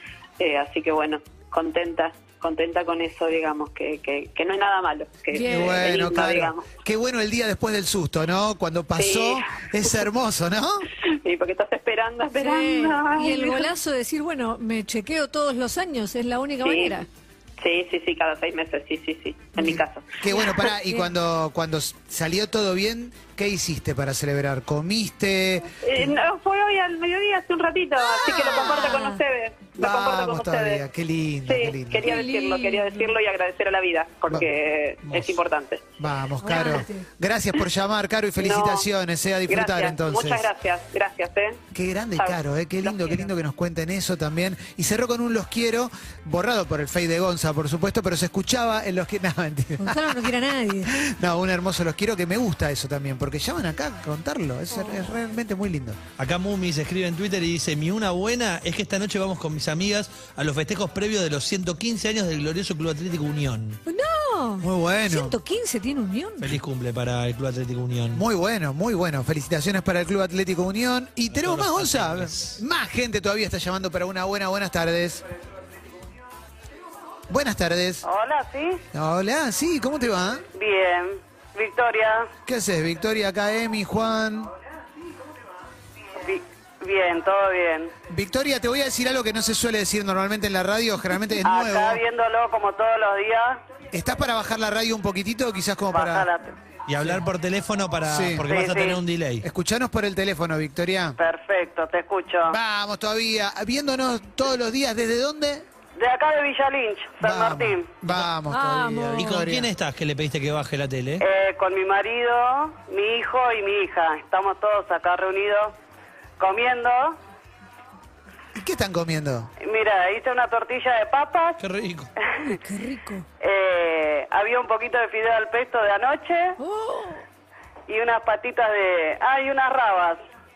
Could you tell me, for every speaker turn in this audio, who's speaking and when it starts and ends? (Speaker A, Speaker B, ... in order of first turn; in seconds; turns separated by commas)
Speaker A: 0.4-6.7, Speaker B: 5.3-5.9, Speaker C: 5.4-10.9, Speaker A: 8.9-9.6, Speaker A: 11.0-13.7, Speaker B: 12.4-17.1, Speaker A: 16.6-17.0, Speaker A: 17.6-20.6, Speaker C: 19.6-26.2, Speaker A: 25.8-30.8, Speaker C: 28.3-28.9, Speaker B: 28.3-29.2, Speaker C: 29.8-32.1, Speaker A: 31.4-35.8, Speaker B: 32.0-33.1, Speaker C: 35.1-35.4, Speaker C: 36.0-40.5, Speaker B: 36.4-37.0, Speaker A: 38.4-38.9, Speaker A: 39.5-41.6, Speaker C: 41.7-50.3, Speaker A: 42.1-43.2, Speaker B: 49.8-51.0, Speaker C: 50.8-56.0, Speaker B: 54.7-55.0, Speaker D: 56.2-63.8, Speaker B: 63.9-66.5, Speaker C: 64.6-65.4, Speaker D: 66.4-68.2, Speaker C: 68.1-75.2, Speaker D: 71.3-72.6, Speaker C: 77.3-78.0, Speaker E: 78.0-78.8, Speaker C: 78.9-80.4, Speaker E: 80.5-82.3, Speaker C: 82.5-84.5, Speaker E: 86.2-87.9, Speaker C: 88.1-92.0, Speaker E: 91.4-93.6, Speaker C: 93.9-96.3, Speaker E: 95.9-96.5, Speaker D: 96.9-99.4, Speaker C: 98.0-98.5, Speaker E: 98.5-99.0, Speaker C: 99.4-101.2, Speaker E: 101.2-102.6, Speaker C: 102.5-105.6, Speaker E: 106.0-107.9, Speaker C: 107.2-109.7, Speaker B: 108.5-109.4, Speaker D: 109.2-111.2, Speaker E: 111.2-115.7, Speaker E: 116.4-117.2, Speaker C: 118.5-119.5, Speaker E: 119.6-121.6, Speaker D: 121.6-122.1, Speaker B: 122.4-123.2, Speaker E: 123.4-126.5, Speaker B: 126.6-127.2, Speaker E: 127.9-130.2